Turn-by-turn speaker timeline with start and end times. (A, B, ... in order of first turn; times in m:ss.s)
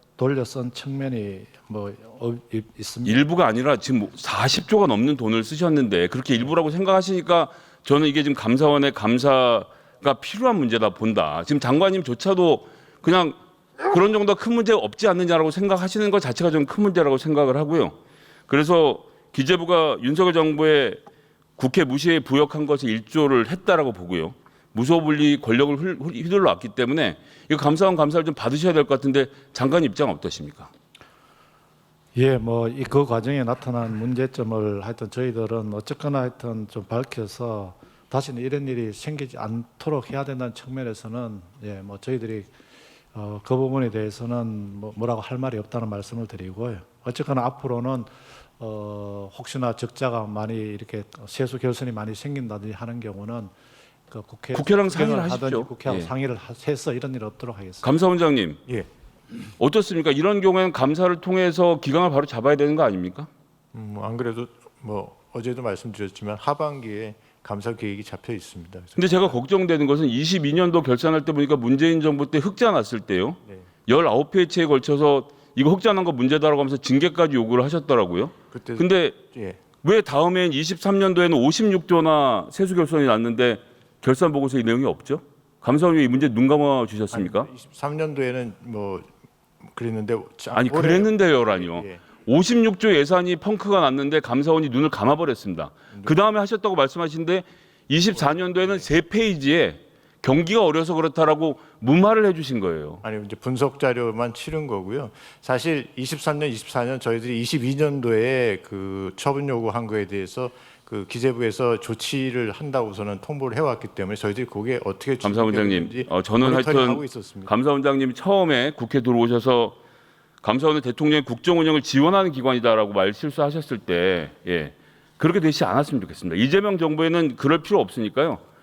0:00.2-0:03.2 A
0:03.0-0:18.0 B
0:18.5-0:21.0 B
0:21.6-0:30.7 B
0:32.1-0:42.5 A
0:43.1-0:53.5 A
0:54.1-0:57.8 A
0:54.5-0:56.1 B
0:57.8-0:58.6 B
0:59.6-1:03.3 B
1:03.7-1:09.4 C
1:09.0-1:19.2 B
1:18.5-1:19.6 C
1:19.8-1:27.5 B
1:27.1-1:29.1 C
1:29.6-1:32.0 C
1:30.5-1:43.0 B
1:38.1-1:38.9 C
1:43.0-1:57.5 C
1:55.2-1:59.8 B
2:00.4-2:08.4 B